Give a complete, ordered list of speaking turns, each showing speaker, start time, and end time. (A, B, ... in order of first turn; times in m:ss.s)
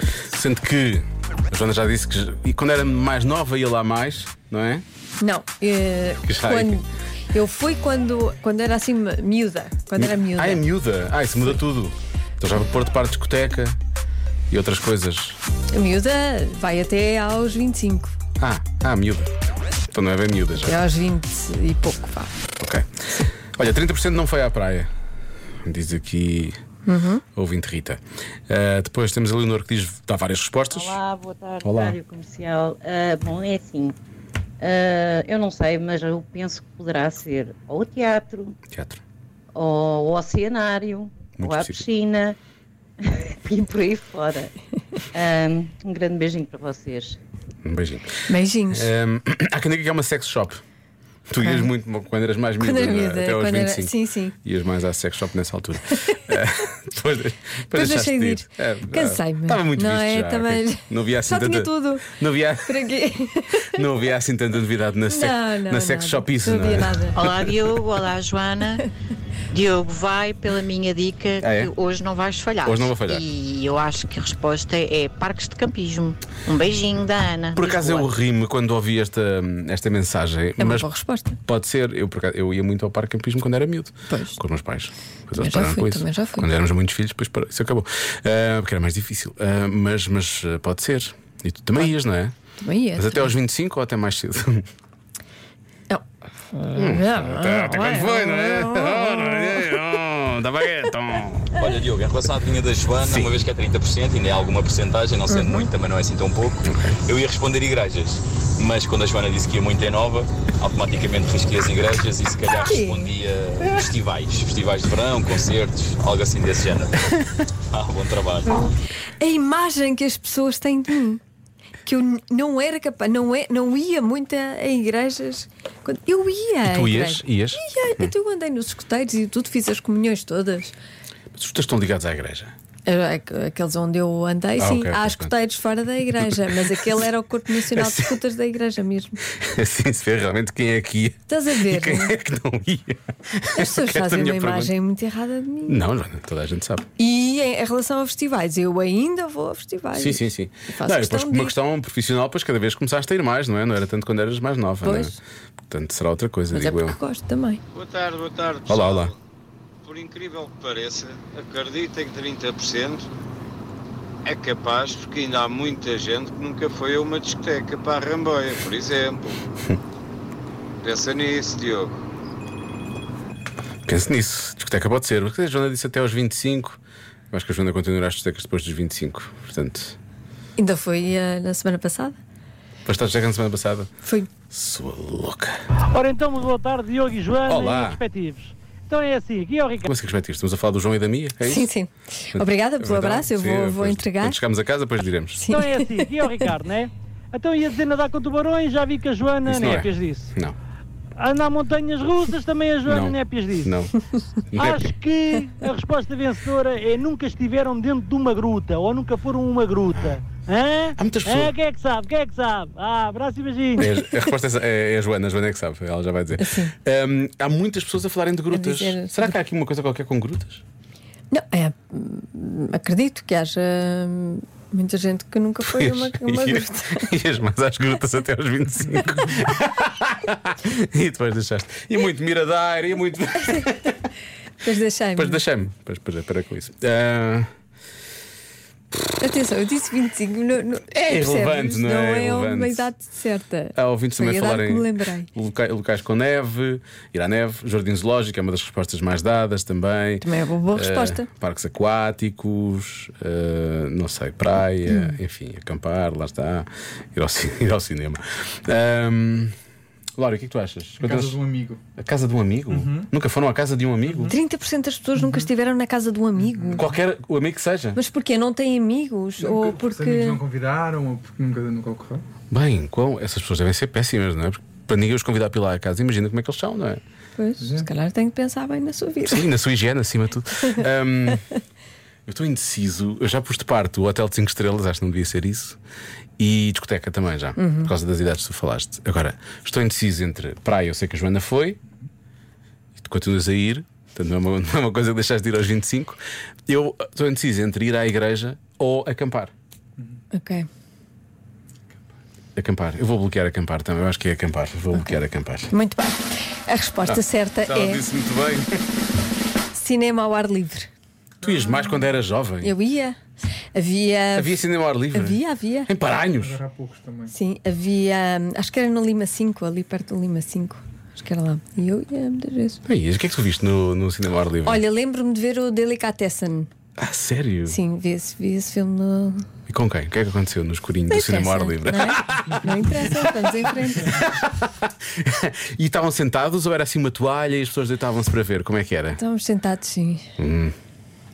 0:00.3-0:04.8 A
0:05.2-0:10.6 B
0:06.2-0:06.8 A
0:10.0-0:13.8 A
0:14.5-0:15.4 A
0:15.7-0:18.1 B
0:18.4-0:19.3 A
0:19.9-0:20.8 A
0:20.6-0:22.3 B
0:22.6-0:24.9 A
0:25.6-0:26.6 A
0:26.8-0:27.2 B
0:27.3-0:31.0 A
0:30.7-0:34.0 C
0:31.6-0:32.0 A
0:34.6-0:38.6 C
0:38.7-0:39.0 A
0:39.5-0:42.4 C
0:41.4-0:41.8 A
0:43.0-0:44.5 C
0:45.1-0:47.2 C
0:47.6-0:50.6 A
0:48.3-0:48.9 B
0:51.3-1:02.9 A
0:51.4-0:51.7 B
0:52.6-0:54.4 B
0:57.7-1:03.8 B
1:03.6-1:07.6 A
1:05.1-1:07.2 B
1:07.1-1:08.8 D
1:09.5-1:18.1 D
1:11.4-1:11.7 A
1:12.6-1:13.2 A
1:17.5-1:20.9 A
1:20.6-1:21.4 B
1:21.4-1:32.3 A
1:24.1-1:24.4 B
1:25.4-1:26.5 B
1:32.6-1:33.3 B
1:33.0-1:34.7 A
1:35.9-1:39.8 B
1:36.7-1:41.6 A
1:41.6-1:57.1 E
1:43.0-1:43.3 A
1:45.3-1:45.7 B
1:46.6-1:46.9 A
1:52.6-1:53.1 B
1:57.7-1:58.7 E
1:59.2-2:01.2 B
2:01.8-2:10.7 B
2:06.6-2:08.1 A
2:11.3-2:12.5 A
2:12.8-2:19.2 B
2:14.6-2:15.3 A
2:16.2-2:16.9 A
2:17.7-2:18.2 A
2:19.3-2:24.7 A
2:21.3-2:22.2 B
2:23.6-2:25.8 B
2:25.7-2:26.9 A
2:27.0-2:31.5 B
2:29.9-2:35.2 A
2:34.8-2:35.2 B
2:35.7-2:37.0 A
2:36.5-2:37.6 B
2:37.7-2:39.2 F
2:38.7-2:39.1 A
2:39.8-2:43.1 F
2:44.2-2:49.4 F
2:50.8-2:52.0 F
2:53.9-2:56.8 A
2:57.3-3:00.0 A
3:00.6-3:02.2 B
3:02.8-3:03.9 A
3:04.0-3:04.3 B
3:04.5-3:05.5 A
3:05.9-3:09.9 G
3:07.5-3:08.0 A
3:09.9-3:11.7 A
3:11.4-3:14.4 B
3:12.3-3:15.5 A
3:15.4-3:15.8 B
3:15.5-3:20.3 G
3:19.4-3:20.6 A
3:21.2-3:23.7 G
3:22.8-3:24.0 A
3:24.5-3:24.9 A
3:24.6-3:33.8 G
3:29.9-3:30.2 A
3:31.0-3:31.5 A
3:33.8-3:40.6 A
3:36.4-3:36.7 B
3:38.5-3:39.3 B
3:41.3-3:47.1 B
3:45.6-3:54.1 A
3:54.6-3:55.4 B
3:55.2-3:57.5 A
3:59.2-4:05.3 B
4:00.9-4:02.9 A
4:03.7-4:19.5 A
4:10.2-4:11.3 B
4:14.9-4:15.2 B
4:20.2-4:21.4 A
4:21.0-4:21.8 H
4:22.0-4:24.3 A
4:22.7-4:23.1 H
4:24.0-4:24.4 H
4:24.3-4:26.9 B
4:25.2-4:25.5 H
4:26.4-4:26.8 H
4:26.8-4:28.0 A
4:27.9-4:30.4 B
4:29.4-4:32.2 H
4:32.5-4:37.0 A
4:37.4-4:39.5 B
4:37.6-4:37.9 H
4:39.2-4:41.4 A
4:42.2-4:45.8 A
4:46.4-4:51.8 A
4:47.6-4:47.9 B
4:53.0-4:59.5 A
5:00.3-5:00.7 B
5:02.6-5:05.7 A
5:04.9-5:08.0 B
5:07.0-5:08.8 A
5:09.7-5:10.9 B
5:11.4-5:12.7 A
5:12.6-5:13.2 B
5:13.7-5:15.9 B
5:14.3-5:16.6 A
5:16.4-5:17.3 H
5:17.3-5:22.8 B
5:22.8-5:24.8 A
5:24.6-5:26.7 B
5:27.0-5:27.8 A
5:27.7-5:29.5 B
5:29.7-5:39.2 A
5:31.1-5:34.2 B
5:39.2-5:40.3 B
5:40.4-5:40.7 A